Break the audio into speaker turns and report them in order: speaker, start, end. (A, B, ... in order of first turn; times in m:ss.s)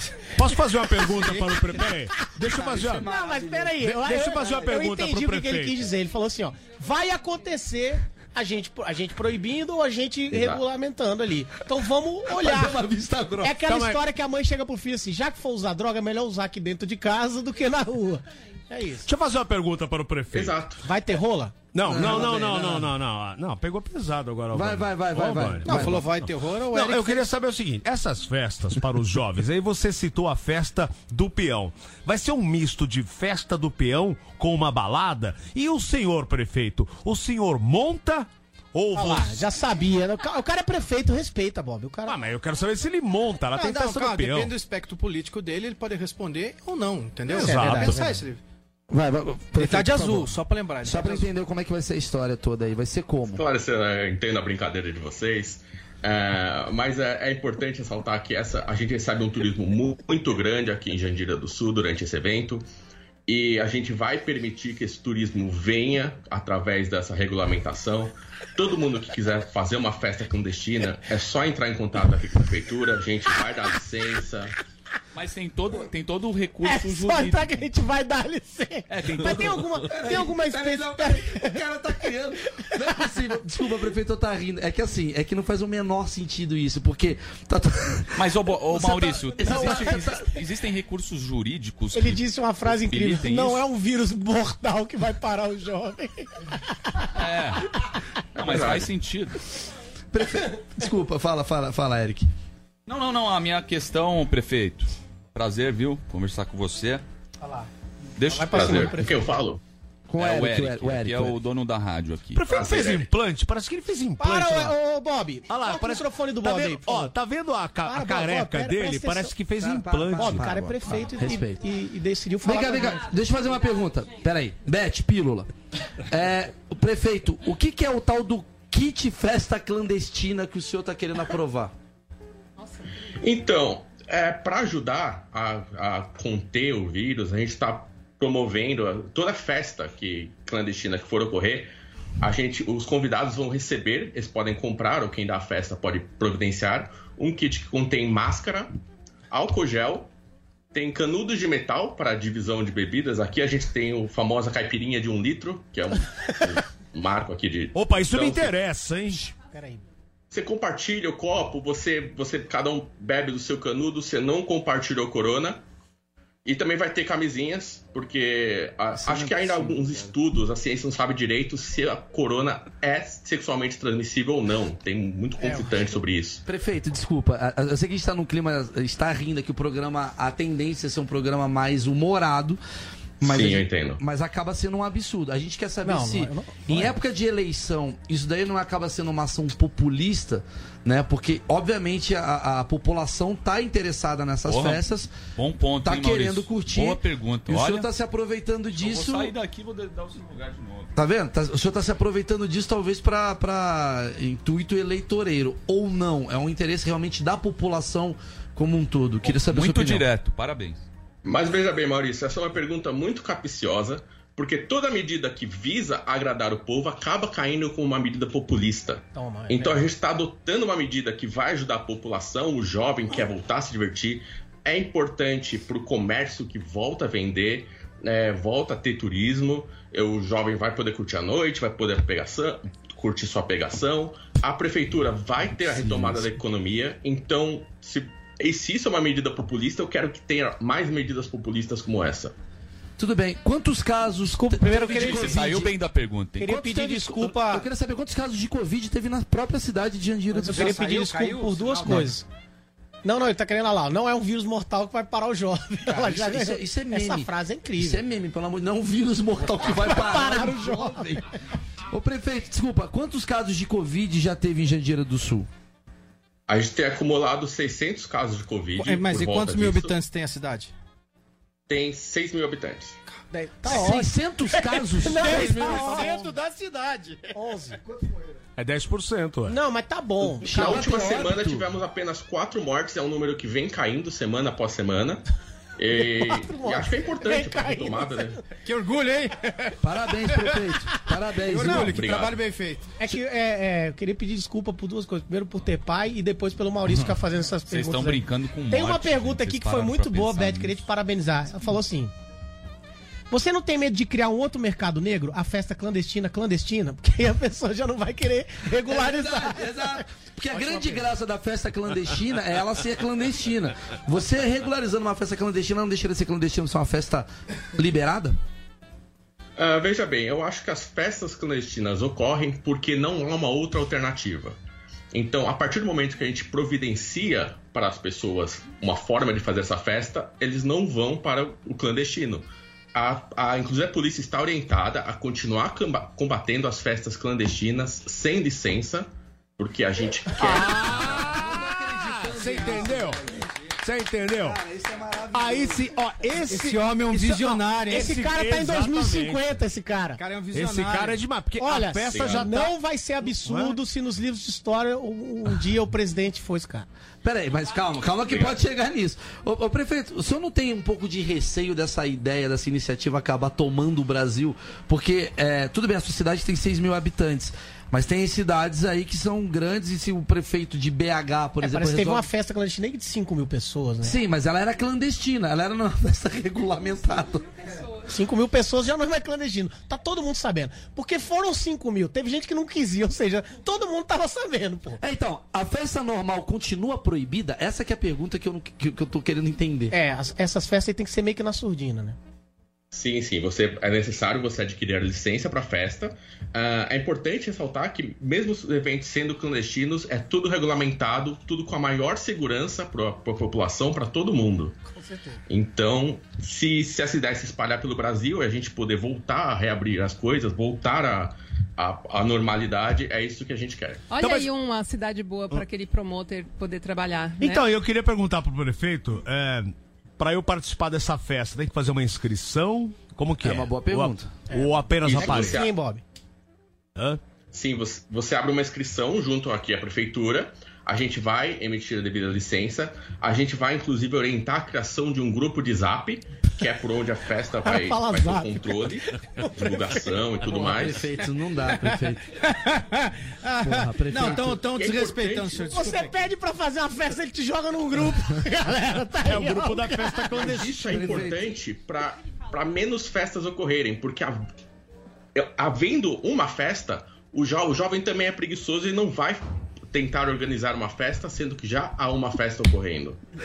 0:00.4-0:03.0 A
0:02.4-0:03.8 B
0:03.0-0:12.8 C
0:03.8-0:05.8 A
0:10.3-0:10.6 D
0:12.3-0:13.6 B
0:13.4-0:19.1 C
0:13.7-0:14.0 A
0:19.0-0:20.6 A
0:20.3-0:20.8 D
0:20.8-0:22.5 C
0:21.7-0:26.2 A
0:21.9-0:22.9 B
0:24.5-0:26.1 B
0:25.7-0:27.3 E
0:26.7-0:39.5 A
0:38.9-0:42.2 C
0:42.1-0:44.5 A
0:43.5-0:48.4 E
0:47.3-0:48.0 A
0:47.3-0:48.2 C
0:48.9-0:50.3 B
0:49.6-0:51.3 E
0:50.8-0:53.4 B
0:53.3-1:02.6 D
1:03.3-1:14.6 D
1:15.1-1:17.6 F
1:16.6-1:21.6 C
1:18.9-1:19.8 F
1:19.8-1:30.4 B
1:28.2-1:33.6 F
1:29.5-1:30.0 C
1:31.9-1:37.1 C
1:37.2-1:37.7 F
1:38.4-1:38.9 D
1:38.4-1:39.4 F
1:40.1-1:42.3 B
1:42.9-1:47.0 F
1:47.4-1:47.7 C
1:48.2-1:49.0 F
1:48.3-1:49.3 C
1:48.5-1:49.6 D
1:50.1-1:51.4 B
1:50.2-1:52.5 F
1:52.4-1:54.8 A
1:52.5-1:53.1 D
1:54.2-1:57.1 C
1:55.5-2:00.7 A
1:57.8-1:59.4 C
1:59.6-2:01.6 B
2:00.2-2:03.1 C
2:02.4-2:05.5 B
2:06.1-2:11.7 B
2:13.1-2:28.7 D
2:29.3-2:30.1 D
2:30.7-2:38.6 D
2:37.7-2:39.3 A
2:39.5-2:39.8 C
2:40.3-2:45.6 D
2:46.4-2:56.4 D
2:49.0-2:49.8 B
2:55.4-2:55.9 C
2:56.5-3:02.6 B
3:03.2-3:04.0 D
3:03.2-3:15.1 B
3:05.8-3:07.0 C
3:14.5-3:14.8 F
3:15.4-3:17.9 F
3:15.8-3:19.3 B
3:18.8-3:20.9 F
3:21.0-3:30.1 B
3:29.3-3:30.8 F
3:31.2-4:02.3 D
3:39.1-3:39.9 C
3:55.7-3:56.3 B
4:03.0-4:05.7 B
4:04.3-4:05.6 C
4:04.9-4:06.6 F
4:06.4-4:07.7 C
4:06.4-4:10.9 B
4:10.4-4:12.1 E
4:10.4-4:12.2 C
4:13.0-4:18.0 C
4:15.9-4:21.2 B
4:19.6-4:21.2 C
4:21.9-4:25.5 B
4:26.5-4:30.0 D
4:28.8-4:30.7 E
4:31.7-4:33.0 D
4:33.3-4:36.3 C
4:33.6-4:36.1 B
4:35.1-4:37.3 E
4:37.3-4:37.8 C
4:38.6-4:39.6 A
4:39.5-4:41.0 C
4:40.4-4:41.7 B
4:40.5-4:45.2 D
4:45.8-4:48.4 D
4:46.1-4:48.3 C
4:48.6-4:50.6 E
4:49.8-4:52.1 B
4:51.4-4:52.9 E
4:51.7-4:52.4 D
4:53.0-5:02.1 C
4:57.7-5:00.9 F
5:03.3-5:10.0 C
5:08.8-5:18.4 B
5:10.6-5:11.0 C
5:19.6-5:24.6 D
5:25.1-5:40.9 D
5:40.4-5:43.2 A
5:40.7-5:43.5 B
5:43.8-5:44.6 A
5:44.4-5:45.9 B
5:45.3-5:49.6 A
5:46.5-5:48.2 E
5:47.5-5:50.2 C
5:50.2-5:51.2 E
5:50.5-5:52.8 A
5:51.6-5:56.9 C
5:52.1-5:52.5 D
5:53.3-5:53.8 A
5:57.2-6:12.3 B
5:58.3-5:58.6 D
6:11.6-6:14.2 C
6:14.0-6:17.5 B
6:18.0-6:25.0 C
6:25.0-6:30.0 B
6:29.9-6:32.2 C
6:32.9-6:44.8 D
6:45.0-6:45.4 C
6:45.5-6:54.1 D
6:54.1-6:57.7 G
6:54.2-6:54.5 A
6:57.4-7:05.7 A
7:03.4-7:04.3 B
7:04.5-7:06.0 C
7:05.0-7:05.7 D
7:07.5-7:21.2 D
7:17.6-7:20.0 C
7:20.4-7:22.3 B
7:22.4-7:26.2 E
7:23.6-7:24.6 B
7:24.7-7:25.7 D
7:25.7-7:30.6 C
7:29.2-7:31.2 A
7:30.3-7:34.4 D
7:30.7-7:31.5 B
7:35.4-7:43.2 D